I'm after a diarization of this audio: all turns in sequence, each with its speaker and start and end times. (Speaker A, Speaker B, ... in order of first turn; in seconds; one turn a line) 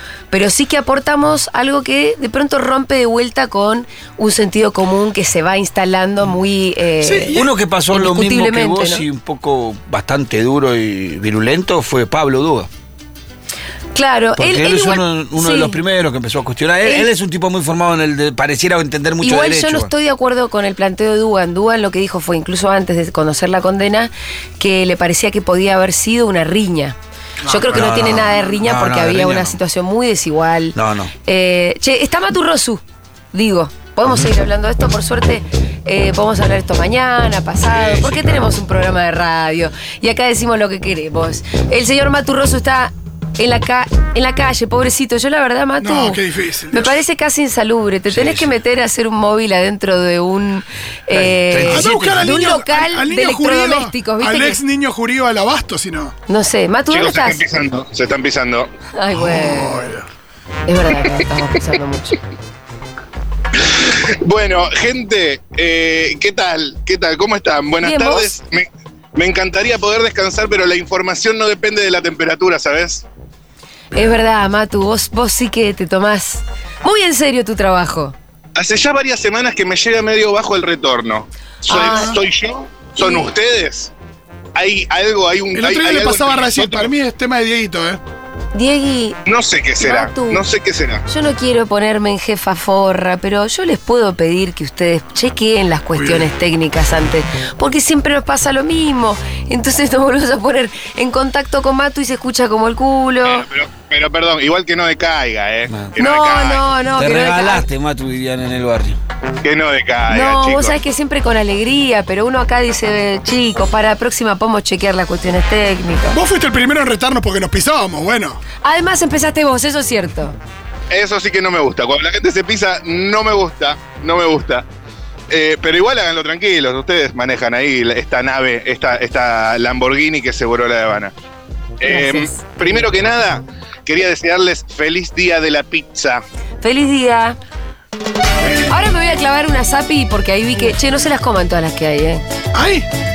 Speaker A: 0.3-9.0
Speaker B: 7.0-7.5
Speaker C: 7.3-12.7
Speaker A: 13.9-15.8
Speaker C: 14.4-19.9
Speaker A: 16.8-17.1
Speaker A: 19.2-32.8
Speaker C: 27.7-29.6
Speaker C: 30.8-31.1
Speaker A: 33.3-54.6
Speaker C: 37.7-38.4
Speaker B: 45.8-47.0
Speaker C: 48.1-48.5
Speaker C: 51.1-52.3
Speaker B: 51.7-56.1
Speaker A: 56.3-57.4
Speaker D: 56.9-58.7
Speaker A: 59.0-59.8
Speaker B: 59.1-60.1
Speaker A: 60.7-62.2
Speaker D: 63.7-73.0
Speaker A: 67.8-68.3
Speaker A: 73.9-78.2
Speaker D: 78.6-83.9
Speaker A: 81.7-82.2
Speaker B: 81.7-82.2
Speaker A: 83.0-83.3
Speaker D: 84.5-86.9
Speaker B: 85.5-88.0
Speaker A: 88.5-89.2
Speaker D: 89.3-91.0
Speaker A: 89.8-90.4
Speaker A: 91.1-103.5
Speaker B: 96.0-96.3
Speaker D: 103.2-106.6
Speaker A: 106.0-107.7
Speaker C: 107.0-109.0
Speaker D: 109.4-110.8
Speaker A: 110.1-116.2
Speaker B: 116.1-118.4
Speaker A: 118.6-120.4
Speaker D: 120.9-124.7
Speaker D: 125.3-131.1
Speaker D: 131.8-136.2
Speaker A: 131.8-132.8
Speaker A: 136.6-137.4
Speaker A: 138.7-142.2
Speaker B: 142.5-142.9